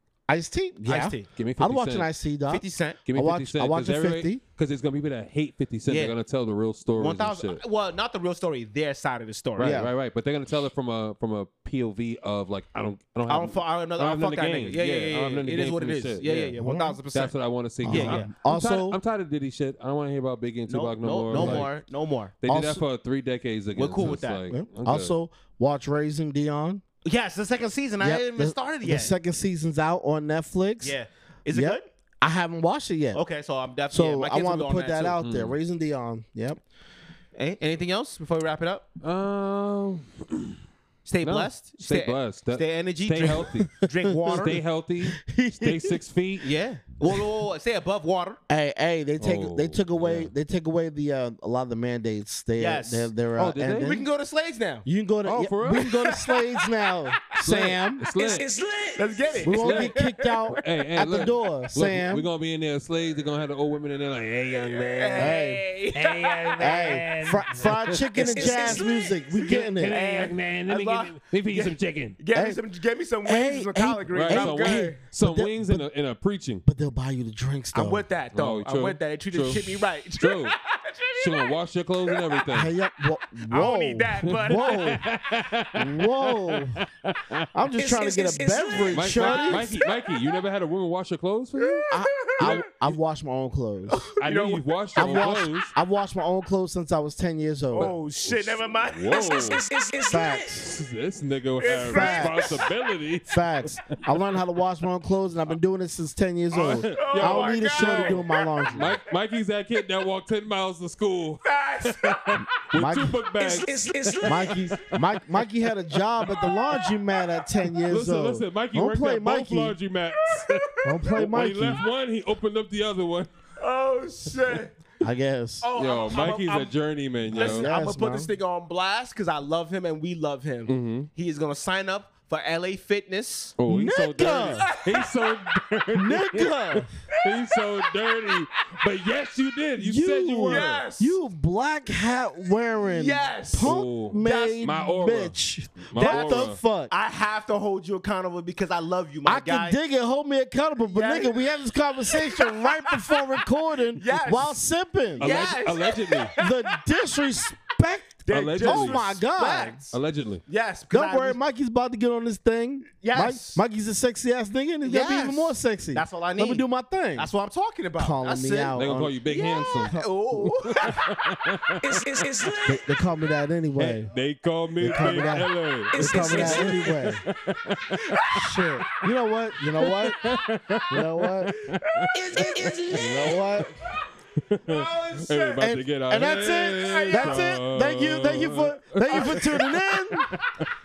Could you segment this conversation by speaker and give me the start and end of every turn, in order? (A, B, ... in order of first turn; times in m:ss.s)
0:00.3-0:04.4 A
0:00.8-0:01.3 B
0:01.3-0:02.1 C
0:02.5-0:03.0 B
0:03.0-0:07.6 C
0:05.9-0:06.1 B
0:07.0-0:09.8 B
0:09.6-0:16.5 C
0:09.6-0:09.9 A
0:13.3-0:17.3 B
0:16.6-0:17.0 A
0:17.1-0:21.7 C
0:17.8-0:19.0 A
0:17.8-0:18.3 B
0:20.7-0:22.3 B
0:21.3-0:21.7 A
0:22.4-0:25.1 C
0:22.5-0:22.8 A
0:23.7-0:24.5 B
0:24.5-0:26.8 A
0:27.0-0:29.1 B
0:28.0-0:31.0 A
0:30.8-0:31.9 B
0:31.5-0:33.2 A
0:33.1-0:35.2 B
0:33.9-0:36.6 A
0:35.2-0:35.6 C
0:37.3-0:38.8 B
0:39.0-0:40.6 C
0:41.0-0:44.6 B
0:41.2-0:43.8 C
0:44.3-0:46.5 C
0:45.1-0:46.0 A
0:46.4-0:48.4 B
0:48.5-0:54.0 A
0:49.2-0:50.3 C
0:52.6-0:53.1 B
0:53.4-0:54.0 C
0:53.6-0:54.8 B
0:54.8-0:58.0 A
0:55.2-0:56.0 C
0:56.0-0:56.6 B
0:57.3-0:58.4 C
0:58.0-0:59.3 D
0:59.0-1:00.0 B
0:59.4-1:02.3 A
0:59.4-1:05.4 C
1:04.5-1:07.0 B
1:05.2-1:05.6 A
1:05.9-1:08.1 C
1:06.6-1:10.0 A
1:08.1-1:15.0 B
1:08.1-1:09.1 D
1:09.5-1:12.2 C
1:12.3-1:12.6 A
1:13.2-1:15.8 A
1:14.1-1:16.6 C
1:16.6-1:18.0 A
1:17.7-1:21.5 B
1:18.3-1:20.6 C
1:21.2-1:22.7 C
1:22.0-1:22.4 B
1:22.5-1:25.0 A
1:23.5-1:25.2 B
1:24.2-1:27.5 C
1:25.7-1:26.8 A
1:27.5-1:29.7 A
1:27.8-1:29.5 D
1:28.9-1:33.0 C
1:29.6-1:30.2 B
1:31.6-1:32.6 B
1:31.9-1:34.0 A
1:33.9-1:34.6 B
1:34.2-1:35.7 C
1:35.0-1:37.9 A
1:37.7-1:39.3 B
1:37.8-1:39.6 C
1:39.1-1:40.6 D
1:40.1-1:40.6 A
1:40.6-1:44.0 C
1:41.6-1:42.6 B
1:41.9-1:42.5 A
1:43.3-1:49.0 A
1:46.5-1:48.7 B
1:46.6-1:55.5 C
1:51.4-1:52.4 B
1:52.8-1:53.2 A
1:53.4-1:54.7 D
1:54.2-1:59.7 A
1:56.2-1:56.5 C
1:56.8-1:57.2 B
1:57.9-2:03.3 C
2:00.8-2:01.8 A
2:03.6-2:04.7 B
2:05.0-2:05.7 A
2:05.6-2:06.7 B
2:05.8-2:07.7 C
2:07.3-2:13.6 B
2:07.3-2:08.3 A
2:10.7-2:11.1 C
2:13.6-2:20.8 C
2:13.7-2:14.6 A
2:14.2-2:15.6 B
2:15.9-2:16.9 A
2:17.1-2:18.4 B
2:19.8-2:26.9 A
2:20.4-2:21.2 B
2:22.8-2:24.8 B
2:23.6-2:26.6 C
2:26.0-2:29.8 B
2:29.2-2:35.4 A
2:30.9-2:31.4 B
2:32.1-2:33.2 B
2:34.0-2:34.6 B
2:35.2-2:36.8 B
2:35.2-2:36.3 C
2:36.4-2:39.8 A
2:38.2-2:40.0 B
2:38.3-2:39.2 C
2:39.9-2:40.4 C
2:40.5-2:41.4 B
2:40.9-2:47.3 A
2:43.0-2:43.6 B
2:44.8-2:46.6 B
2:47.2-2:51.1 B
2:48.0-2:49.2 A
2:48.7-2:52.0 C
2:51.8-2:52.9 D
2:52.6-2:54.1 A
2:53.8-2:59.0 C
2:54.8-2:57.2 A
2:55.9-2:57.1 D
2:57.9-2:58.4 B
2:58.3-3:00.3 A
2:59.8-3:02.4 C
3:00.9-3:01.5 A
3:01.6-3:03.4 B
3:02.2-3:03.2 D
3:02.9-3:03.7 A
3:03.0-3:03.3 C
3:04.4-3:10.7 C
3:04.6-3:05.7 B
3:05.6-3:10.3 A
3:06.6-3:07.6 B
3:09.2-3:09.6 B